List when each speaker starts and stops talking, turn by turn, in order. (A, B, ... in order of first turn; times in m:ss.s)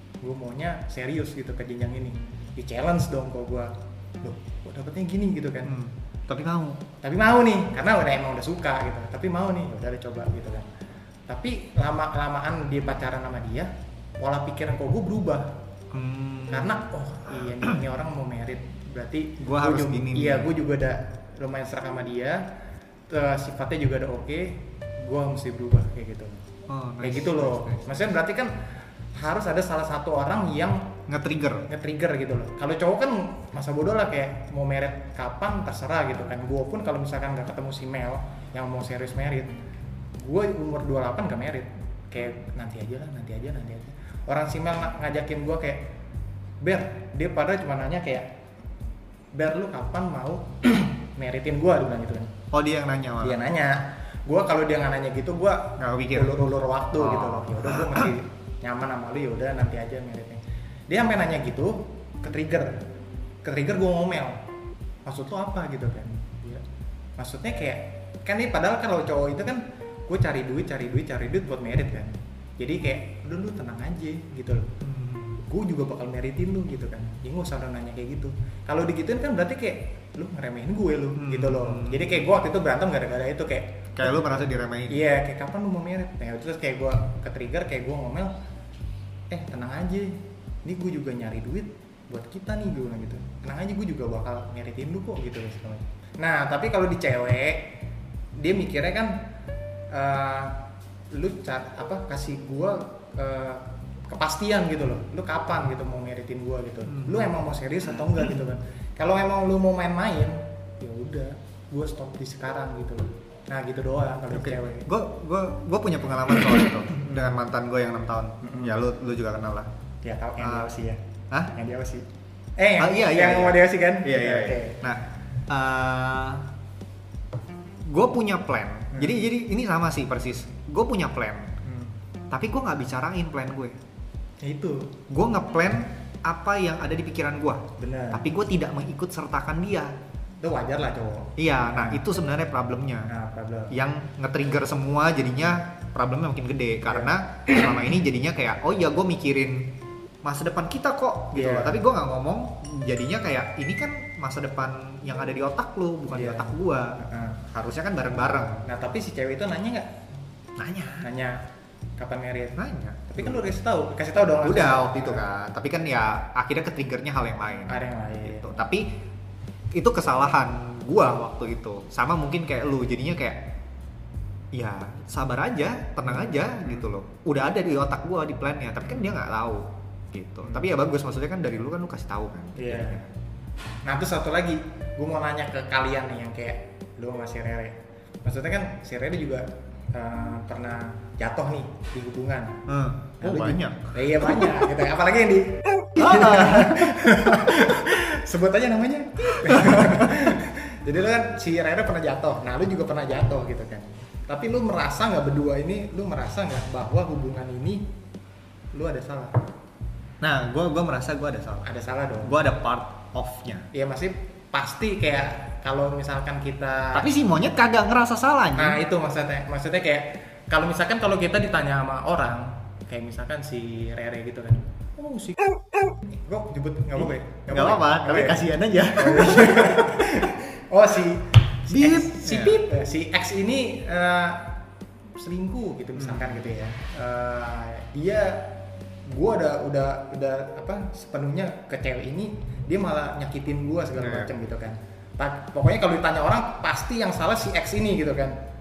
0:00.2-0:05.8 A
0:05.6-0:06.8 B
0:07.0-0:10.7 A
0:11.3-0:15.5 A
0:15.9-0:16.8 B
0:16.5-0:22.4 A
0:19.4-0:20.5 B
0:23.1-0:26.4 A
0:26.7-0:27.8 B
0:27.0-0:28.6 A
0:29.2-0:30.9 A
0:31.1-0:31.7 B
0:31.7-0:39.6 A
0:40.2-0:45.9 A
0:46.6-0:48.3 A
0:49.3-0:52.4 A
0:52.5-0:53.4 B
0:53.2-1:02.8 A
0:55.8-0:56.3 B
0:57.0-0:58.1 B
1:03.4-1:04.4 A
1:05.0-1:06.6 A
1:07.2-1:14.8 A
1:14.8-1:15.4 B
1:15.4-1:24.2 A
1:21.2-1:22.2 B
1:24.0-1:25.0 B
1:24.9-1:28.3 A
1:29.3-1:37.7 A
1:38.4-1:39.2 A
1:39.9-1:54.9 A
1:46.9-1:47.3 B
1:54.3-1:59.7 B
1:56.9-1:57.3 A
1:58.4-1:58.8 A
2:00.0-2:04.8 A
2:00.4-2:00.7 B
2:02.8-2:06.5 B
2:07.9-2:11.6 B
2:08.9-2:09.2 A
2:11.6-2:12.0 A
2:12.3-2:13.8 B
2:14.4-2:15.0 A
2:15.1-2:20.0 B
2:17.8-2:18.2 A
2:20.4-2:22.0 A
2:21.4-2:23.1 B
2:23.1-2:23.8 A
2:23.7-2:29.7 B
2:26.9-2:27.2 A
2:30.2-2:38.6 B
2:31.3-2:31.8 A
2:36.1-2:37.4 A
2:38.6-2:39.9 A
2:40.6-2:41.1 B
2:41.0-2:41.4 A
2:42.0-2:45.2 A
2:42.6-2:43.4 B
2:44.4-2:48.9 B
2:47.7-2:48.5 A
2:49.7-2:53.4 B
2:54.5-3:03.1 B
2:56.0-2:56.9 A
3:02.6-3:03.0 A
3:03.8-3:12.6 A
3:12.7-3:14.5 B
3:13.2-3:27.9 A
3:15.9-3:17.7 B
3:19.4-3:20.1 B
3:28.7-3:29.4 A
3:30.2-3:31.7 B
3:31.6-3:32.4 A
3:32.2-3:33.7 B
3:33.7-3:37.1 A
3:36.9-3:38.8 B
3:38.6-3:45.4 A
3:46.1-3:54.6 A
3:47.0-3:50.2 B
3:51.7-3:52.6 B
3:55.2-3:58.5 A
3:56.0-3:56.6 B
3:59.1-4:08.4 A
4:04.0-4:04.3 B